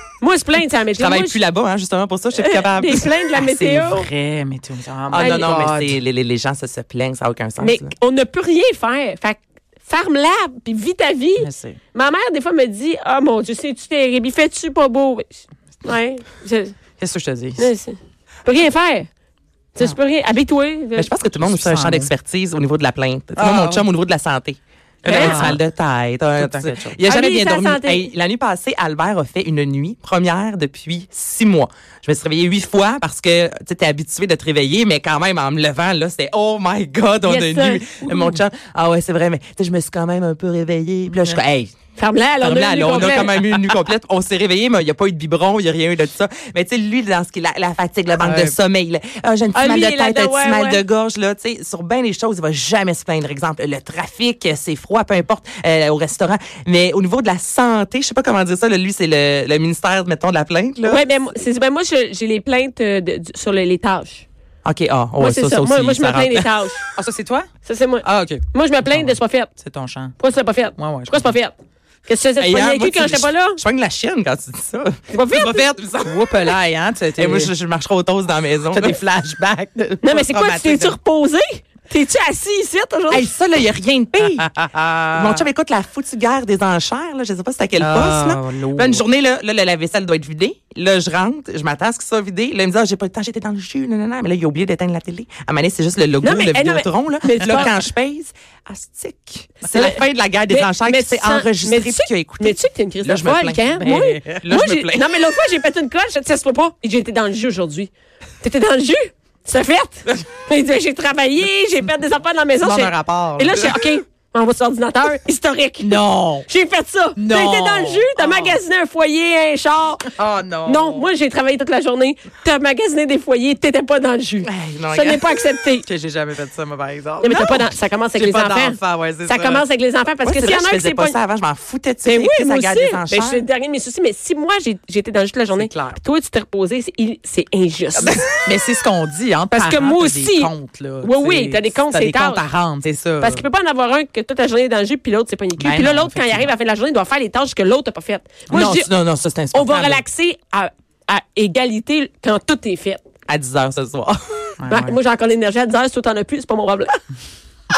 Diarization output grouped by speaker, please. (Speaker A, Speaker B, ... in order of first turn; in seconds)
Speaker A: 0.2-1.4, 2.4-4.1, 5.2-5.5, 7.6-15.3, 15.8-16.7, 17.6-19.1, 19.8-21.1, 25.1-25.5, 27.1-28.1, 37.3-38.4, 42.0-43.4, 49.5-50.8, 60.9-64.2, 65.2-66.9, 67.7-69.5, 70.2-71.5, 72.1-73.6, 75.1-75.7, 80.0-83.3, 96.2-97.7, 99.6-107.9, 108.4-120.1, 120.7-125.9, 127.2-131.2, 132.0-138.2, 139.5-142.5, 143.2-148.9, 149.5-153.0, 154.7-157.0
Speaker B: 0.9-3.1, 5.1-7.9, 20.9-41.8, 42.4-61.0, 64.7-66.7, 72.4-76.5, 77.2-79.0, 83.1-84.5, 85.1-105.0, 124.4-125.2, 130.2-133.4, 148.5-150.0, 153.3-154.6
Speaker C: 3.4-6.0, 11.4-11.8, 17.0-17.7, 21.4-22.1, 23.4-23.9, 25.1-25.6, 26.4-27.0, 41.1-41.4, 48.2-48.5, 67.0-67.5, 68.0-70.2, 70.8-71.3, 76.0-77.5, 78.7-81.0, 84.4-85.5, 87.8-89.0, 103.8-104.5, 112.6-113.7, 115.8-116.5, 117.2-118.6, 120.2-121.1, 125.8-129.7, 135.6-136.0, 137.9-143.4, 145.6-146.5, 154.6-155.0